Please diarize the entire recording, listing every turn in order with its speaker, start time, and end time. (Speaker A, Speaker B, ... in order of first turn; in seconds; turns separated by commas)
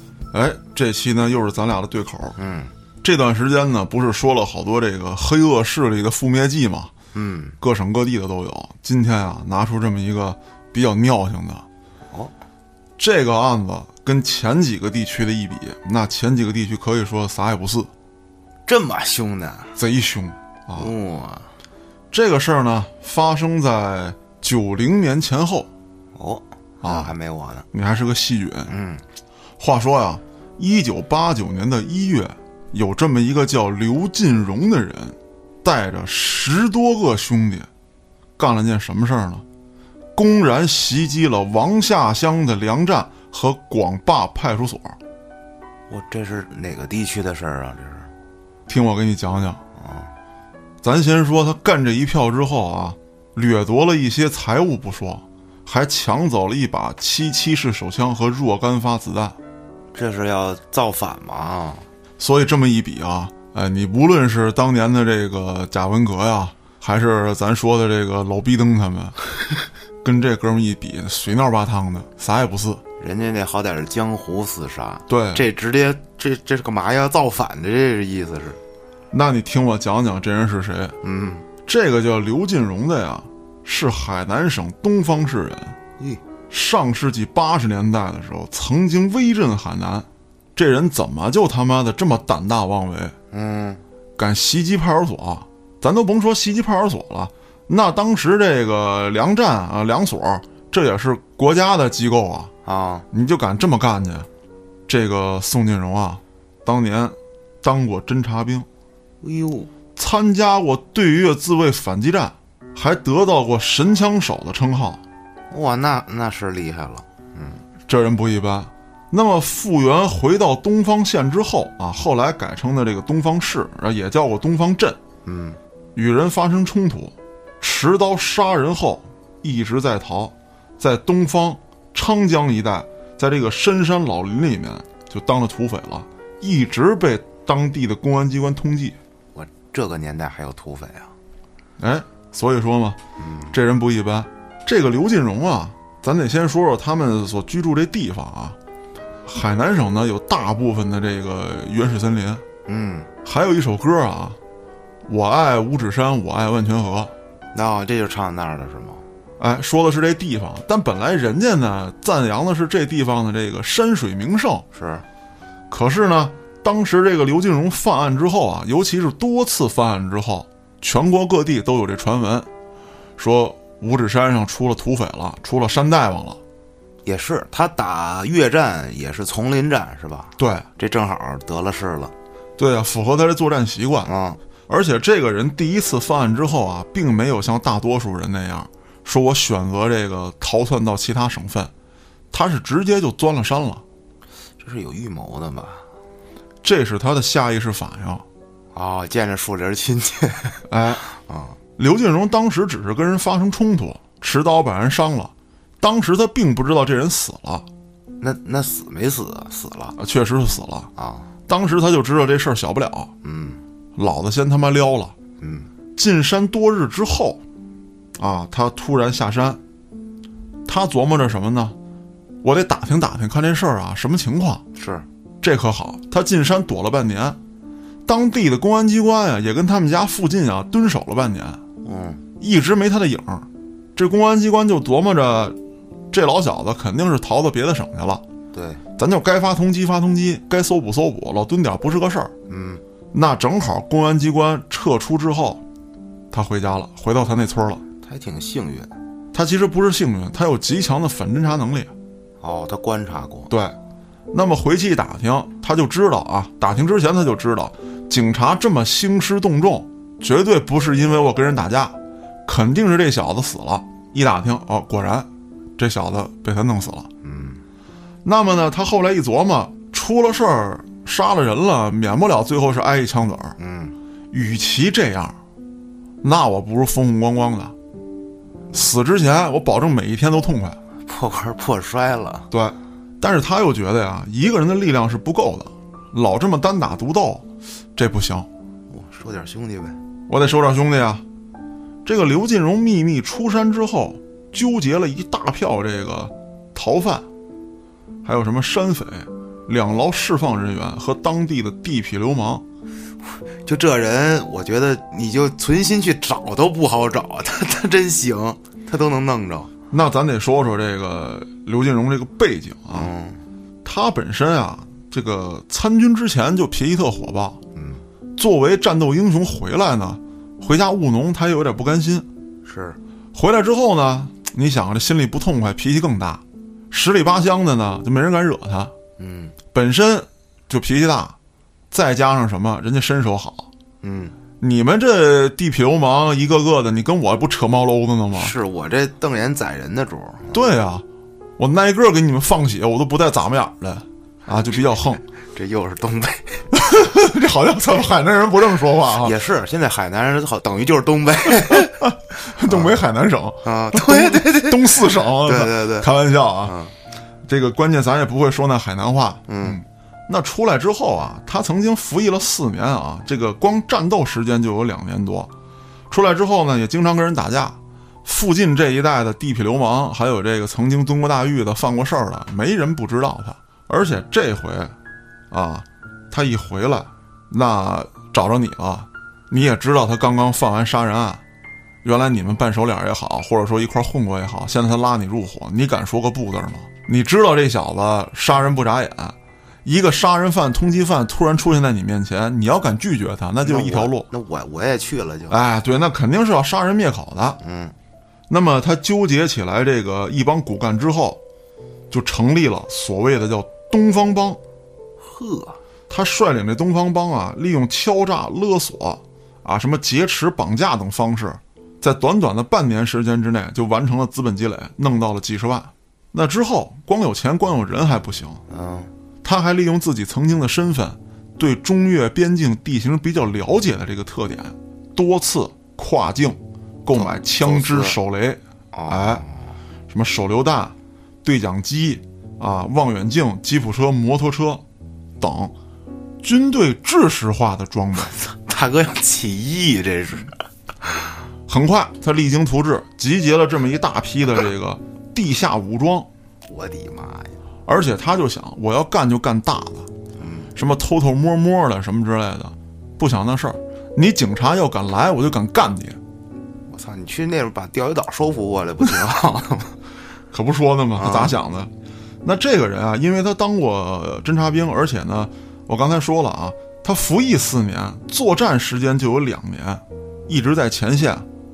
Speaker A: 0.3-2.4, Speaker B: 2.4-2.7, Speaker A: 3.0-6.9, Speaker B: 7.1-7.6, Speaker A: 7.6-11.7, Speaker A: 13.0-17.9, Speaker B: 18.7-19.8, Speaker A: 19.8-20.9, Speaker B: 20.8-21.5, Speaker A: 22.1-25.7, Speaker B: 26.1-27.7, Speaker A: 26.8-27.1, Speaker A: 27.7-28.7, Speaker B: 28.7-29.0, Speaker A: 29.6-37.7, Speaker A: 38.4-39.4, Speaker A: 40.2-45.0, Speaker B: 45.9-48.1, Speaker A: 48.7-49.6, Speaker B: 49.8-50.1, Speaker A: 50.8-59.4, Speaker B: 59.9-61.9, Speaker A: 62.2-69.2, Speaker A: 70.0-72.8, Speaker B: 73.0-78.6, Speaker A: 75.1-75.4, Speaker A: 79.1-81.0, Speaker B: 81.0-81.5, Speaker A: 81.7-85.8, Speaker A: 86.5-93.2, Speaker B: 93.3-93.8, Speaker A: 94.2-102.5, Speaker B: 102.7-103.1, Speaker A: 103.1-104.3, Speaker A: 104.9-108.7, Speaker B: 109.2-109.7, Speaker A: 110.0-115.0, Speaker B: 115.5-117.6, Speaker A: 117.9-125.0, Speaker B: 125.3-125.6, Speaker A: 126.0-139.0, Speaker B: 139.3-141.1, Speaker A: 141.8-143.0, Speaker B: 143.2-143.6, Speaker A: 143.5-148.6, Speaker A: 149.3-152.4, Speaker B: 152.7-153.1, Speaker A: 153.2-154.4, Speaker A: 155.1-157.1, Speaker B: 157.5-159.0, Speaker A: 159.4-164.7, Speaker B: 164.7-165.1, Speaker A: 165.7-172.5, Speaker A: 173.2-176.4, Speaker B: 177.1-182.1, Speaker A: 180.4-180.7, Speaker A: 182.6-184.1, Speaker B: 184.0-184.4, Speaker A: 184.7-191.7, Speaker A: 192.3-193.8, Speaker B: 194.6-195.8, Speaker A: 196.6-198.2, Speaker B: 198.7-201.6, Speaker A: 200.7-201.0, Speaker A: 201.8-207.7, Speaker B: 208.2-210.0, Speaker A: 210.0-210.9, Speaker B: 211.0-211.3, Speaker A: 211.5-213.1, Speaker B: 213.2-213.6, Speaker A: 214.0-215.1, Speaker B: 215.4-215.7, Speaker A: 216.0-217.4, Speaker A: 218.2-219.6, Speaker A: 220.7-221.8, Speaker A: 222.4-224.6, Speaker B: 224.8-225.1, Speaker A: 225.4-227.4, Speaker A: 228.1-231.6, Speaker B: 231.8-232.2, Speaker A: 232.4-235.6, Speaker A: 236.1-238.2, Speaker B: 238.5-238.8, Speaker A: 239.0-242.3, Speaker B: 242.5-242.8, Speaker A: 243.1-245.6, Speaker A: 246.3-247.8, Speaker B: 248.0-248.9, Speaker A: 249.3-251.9, Speaker B: 252.4-253.5, Speaker A: 253.5-253.8, Speaker A: 254.3-267.1, Speaker B: 267.2-267.6, Speaker A: 268.2-273.6, Speaker B: 273.6-273.9, Speaker A: 274.3-275.4, Speaker A: 276.2-277.7, Speaker A: 278.7-280.8, Speaker B: 281.1-282.5, Speaker A: 282.5-288.5, Speaker B: 288.9-290.0, Speaker A: 290.3-291.2, Speaker A: 292.1-297.2, Speaker A: 298.2-302.6, Speaker B: 303.6-309.7, Speaker A: 309.9-313.1, Speaker B: 312.9-313.4, Speaker A: 313.8-317.6, Speaker B: 317.8-318.0, Speaker A: 318.4-322.3, Speaker B: 322.6-323.0, Speaker A: 323.3-328.9, Speaker B: 329.2-329.6, Speaker A: 329.7-331.4, Speaker A: 331.9-333.7, Speaker B: 334.0-334.4, Speaker A: 334.6-338.5, Speaker B: 338.3-340.7, Speaker A: 340.5-341.1, Speaker A: 341.6-345.2, Speaker B: 345.4-346.7, Speaker A: 346.7-349.3, Speaker B: 349.2-352.1, Speaker A: 351.6-356.8, Speaker B: 352.6-353.0, Speaker B: 353.6-356.1, Speaker B: 356.6-356.9, Speaker A: 357.4-365.5, Speaker B: 359.5-359.8, Speaker A: 366.1-374.9, Speaker A: 375.5-381.4, Speaker A: 382.0-394.3, Speaker B: 393.6-395.6, Speaker A: 395.5-397.6, Speaker B: 397.6-398.0, Speaker A: 398.5-401.4, Speaker A: 402.1-404.6, Speaker B: 405.2-405.8, Speaker A: 406.1-418.6, Speaker B: 418.7-419.1, Speaker A: 419.4-429.4, Speaker B: 427.1-428.2, Speaker B: 428.9-429.7, Speaker A: 430.1-434.8, Speaker A: 435.4-435.7, Speaker A: 436.4-438.4, Speaker B: 438.3-440.6, Speaker A: 441.7-446.3, Speaker B: 446.7-447.6, Speaker A: 447.9-450.1, Speaker B: 450.4-450.7, Speaker A: 450.8-456.2, Speaker B: 456.9-460.0, Speaker A: 460.5-461.9, Speaker B: 461.2-461.6, Speaker A: 462.4-471.5